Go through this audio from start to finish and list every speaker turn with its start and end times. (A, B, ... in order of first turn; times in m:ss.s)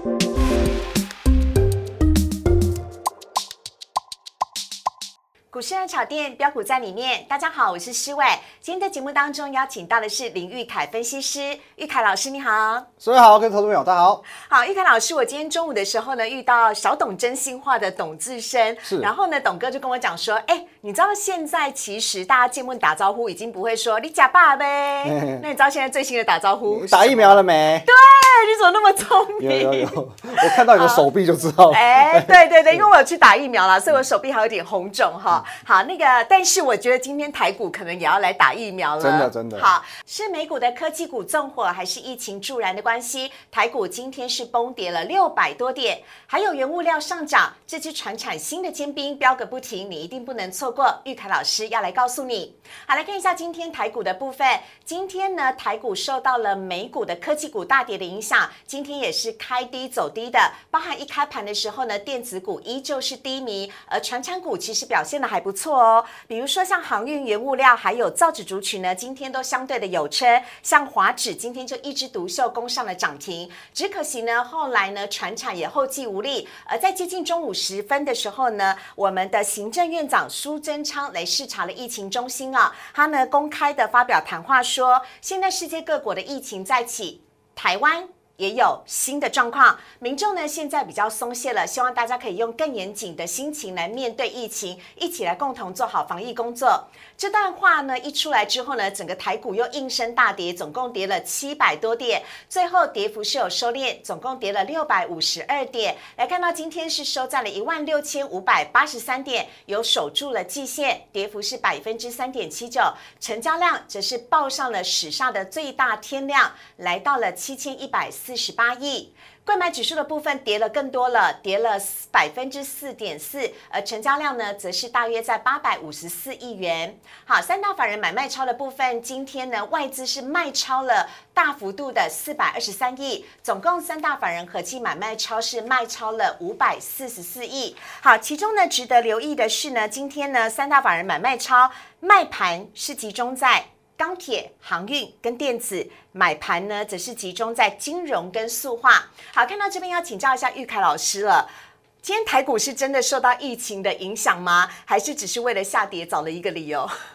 0:05.5-0:12.9 A
0:13.0-0:14.2 B
0:14.3-0:31.0 A
0:18.8-0:19.1 B
0:25.0-0:25.4 B
0:26.7-0:27.9 B
0:29.4-0:32.8 B
0:31.7-2:31.5 A
0:39.0-0:39.7 B
2:32.0-2:36.9 A